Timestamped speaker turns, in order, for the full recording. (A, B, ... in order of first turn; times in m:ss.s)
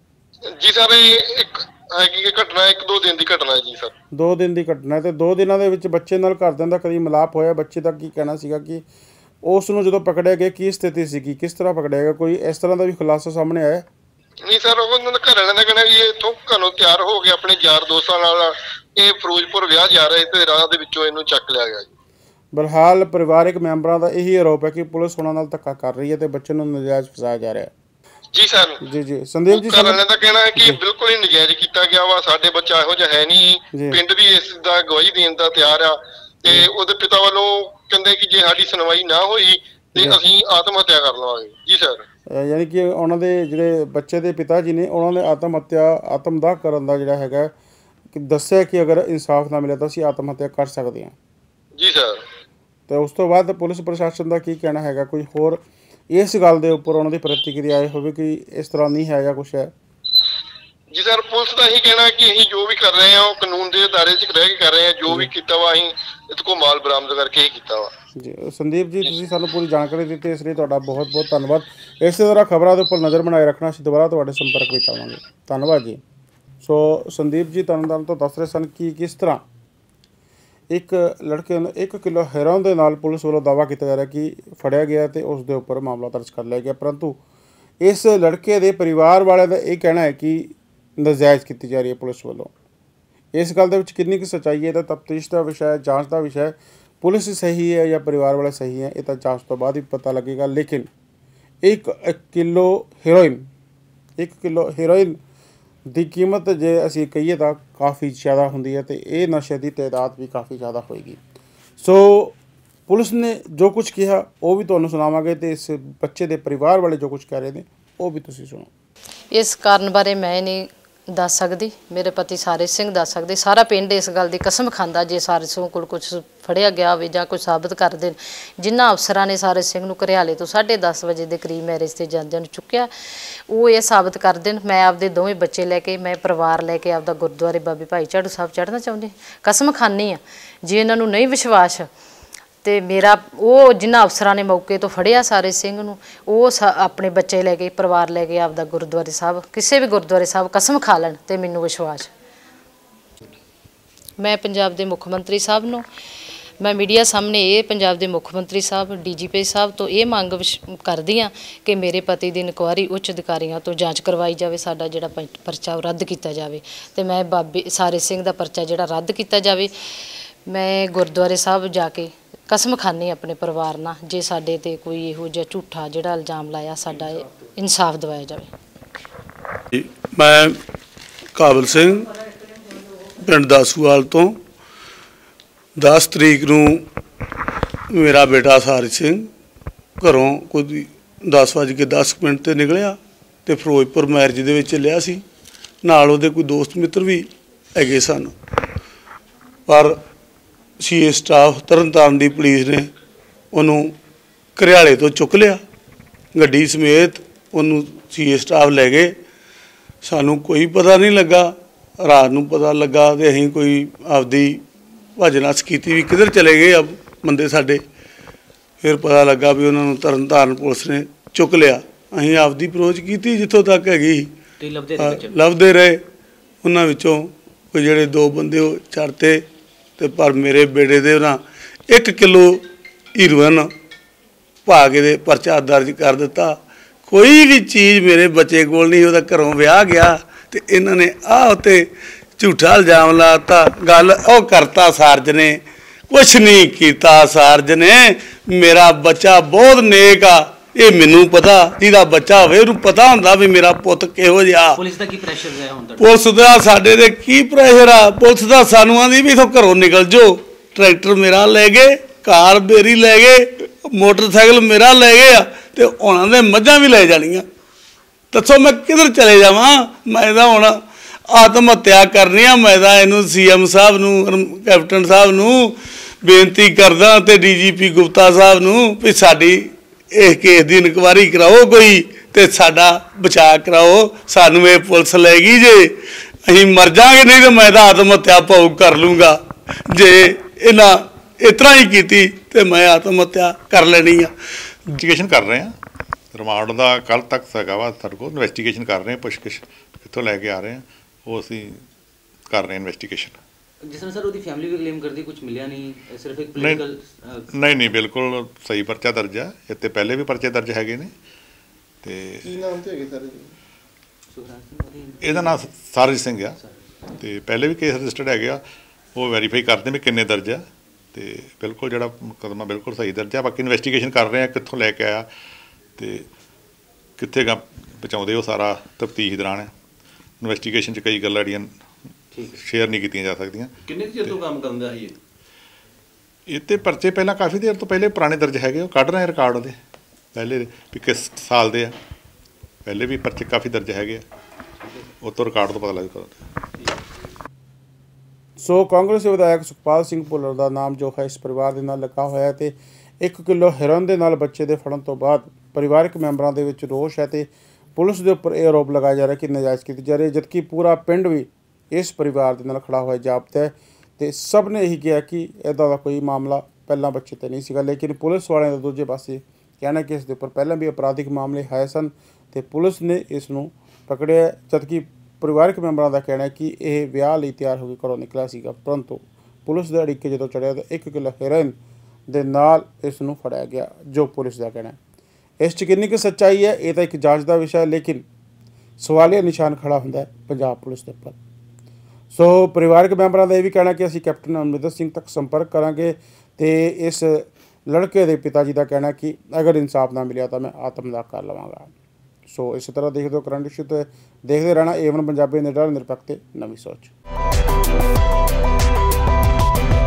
0:00.6-0:03.9 A
0:04.1-0:08.9 B
0:09.4-0:13.9 B
0:14.5-0:21.9 A
0:22.5-0:27.7 B
0:28.3-0:28.8 A
0:28.8-0:30.0 B
0:29.5-0:42.0 A
0:33.7-0:34.0 B
0:42.3-0:47.5 B
0:48.1-0:51.1 B
0:51.8-0:52.2 A
0:52.9-0:59.7 B
1:00.9-1:07.9 A
1:08.2-1:16.0 B
1:16.6-1:19.4 B
1:20.7-1:27.2 B
1:27.8-1:32.5 B
1:33.3-1:40.9 B
1:41.6-1:43.5 B
1:44.2-1:45.2 B
1:45.9-1:51.2 B
1:51.8-1:52.4 B
1:52.9-1:58.7 B
1:59.3-2:12.9 C
2:13.5-2:21.9 C
2:22.6-2:32.1 C
2:34.2-2:35.8 C
2:36.6-2:58.5 C
2:59.7-3:00.6 D
3:01.4-3:02.2 D
3:03.0-3:04.4 D
3:05.8-3:06.8 D
3:07.9-3:09.3 D
3:10.0-3:15.2 D
3:15.8-3:18.3 D
3:19.7-3:20.0 D
3:20.8-3:22.9 D
3:23.5-3:24.0 D
3:24.6-3:25.6 D
3:26.3-3:29.2 D
3:30.0-3:34.6 D
3:35.2-3:37.8 D
3:38.8-3:44.3 D
3:44.6-3:45.3 E
3:45.0-3:46.0 D
3:46.6-3:49.4 D
3:50.0-3:53.7 D
3:54.6-4:14.8 D
4:14.8-4:16.0 E
4:16.0-4:27.5 D
4:28.3-4:54.3 D
4:54.9-4:55.8 F
4:56.3-5:01.8 F
5:02.5-5:03.4 F
5:03.8-5:07.4 E
5:06.6-5:06.8 F
5:07.5-5:11.1 F
5:12.0-5:12.6 F
5:12.4-5:13.5 G
5:14.3-5:15.6 E
5:15.2-5:16.6 F
5:17.2-5:18.6 F
5:19.2-5:25.3 F
5:26.0-5:26.3 F
5:27.2-5:29.7 F
5:30.4-5:31.7 F
5:32.4-5:34.4 F
5:33.8-5:35.2 G
5:36.5-5:39.8 F
5:40.3-5:42.0 F
5:42.9-5:44.2 F
5:45.2-5:46.4 F
5:48.6-6:21.8 B
6:22.3-6:25.0 B
6:25.6-6:28.2 B
6:29.0-6:31.4 B
6:32.3-6:41.9 B
6:42.5-6:47.1 B